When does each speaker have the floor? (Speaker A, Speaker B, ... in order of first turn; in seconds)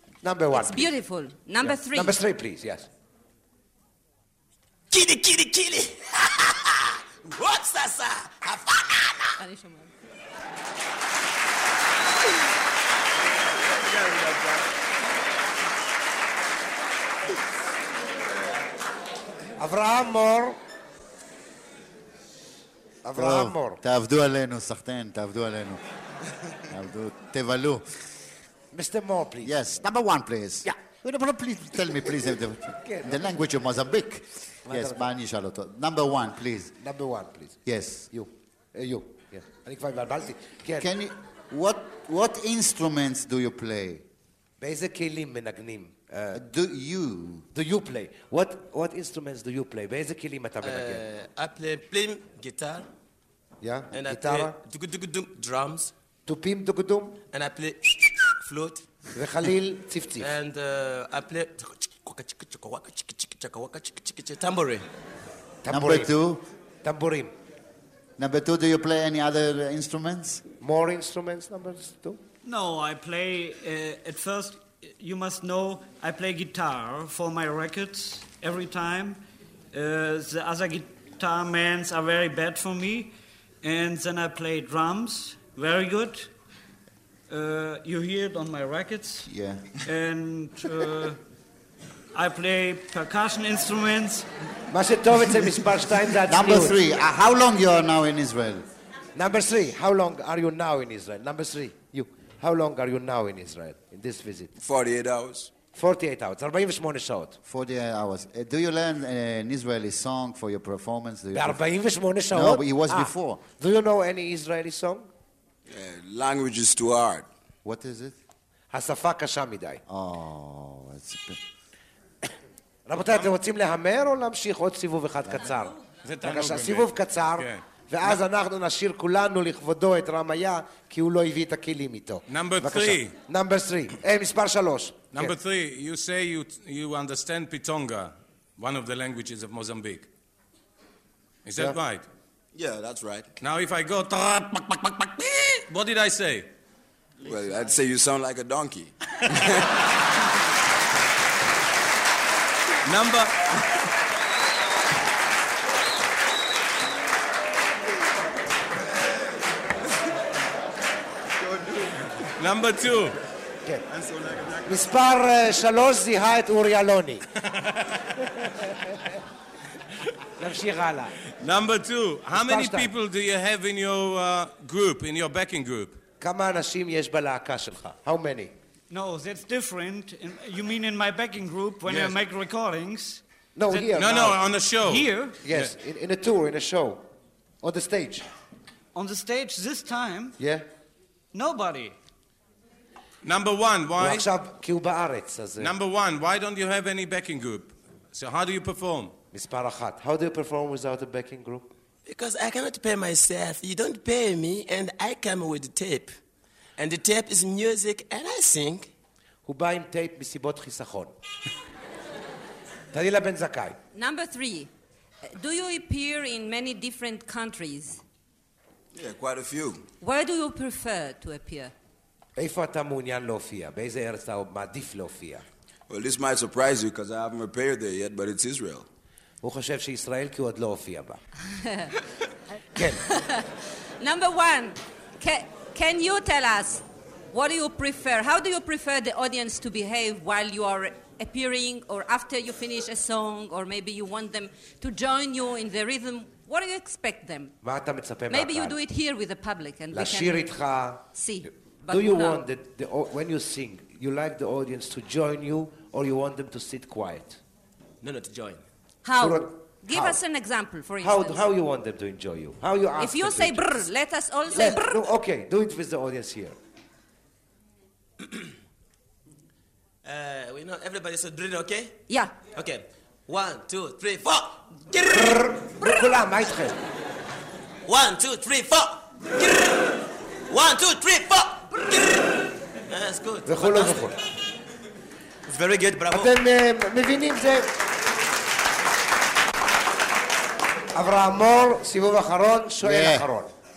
Speaker A: 0.2-0.9, 1.6-2.9, 19.6-20.6, 23.0-23.8, 28.7-29.6, 32.8-33.4, 34.7-35.1, 36.8-37.6, 38.1-40.9, 44.6-46.4, 47.5-51.0, 53.6-54.5, 56.2-57.2, 59.1-60.3, 65.6-66.1, 66.8-67.3, 70.6-72.2, 94.7-96.8, 99.1-104.5, 105.7-107.4, 111.3-115.1, 118.7-119.8, 122.8-135.3, 164.7-167.2, 168.4-169.0, 170.4-171.2, 172.3-172.9, 176.2-178.5, 183.6-184.4, 185.4-187.1, 187.6-188.3, 190.4-190.6, 194.0-195.7, 199.3-201.7, 209.4-211.1, 212.9-213.8, 222.3-225.4, 229.4-231.2, 232.8-233.0, 247.6-248.8, 249.9-251.0, 251.9-257.4, 259.2-260.2, 261.0-263.8, 264.5-266.6, 275.1-276.8, 283.4-284.2, 286.1-287.7, 290.9-293.5
Speaker B: 0.5-2.2, 9.4-9.9, 213.9-214.7, 215.3-218.0, 220.0-221.7, 231.5-231.9, 233.0-247.6, 248.3-250.5, 251.1-252.4, 259.0-261.4, 263.0-265.1, 272.1-272.4
Speaker C: 4.9-9.4, 50.6-52.9, 53.9-55.9, 57.3-58.9, 60.2-64.9, 202.0-206.2, 206.8-208.9, 258.0-258.6, 270.0-275.6, 277.9-284.2, 285.4-286.3
Speaker D: 13.7-14.6, 104.6-105.5, 115.7-117.3, 142.5-143.3, 147.2-149.7, 161.4-162.1, 163.9-164.8, 218.9-219.8, 225.9-228.9
Speaker E: 23.1-25.8, 26.7-28.1, 29.4-36.8, 37.6-38.1, 40.8-44.0, 46.3-47.5, 65.7-66.5, 68.2-70.4, 89.3-89.8, 96.2-98.7, 107.5-111.6, 112.3-113.4, 117.6-118.2, 119.9-121.4, 292.8-293.3
Speaker F: 72.4-79.2, 79.7-86.3, 87.3-89.3, 89.8-91.2, 92.1-94.3, 178.9-183.2, 184.8-185.4, 188.9-190.4, 191.3-191.9
Speaker G: 126.0-128.2, 132.3-133.1, 135.1-140.1, 141.4-142.1, 143.4-146.5, 152.8-153.6, 162.3-163.2, 167.5-168.1, 171.3-176.0, 181.9-182.2, 183.7-185.7, 193.2-194.3, 195.6-199.1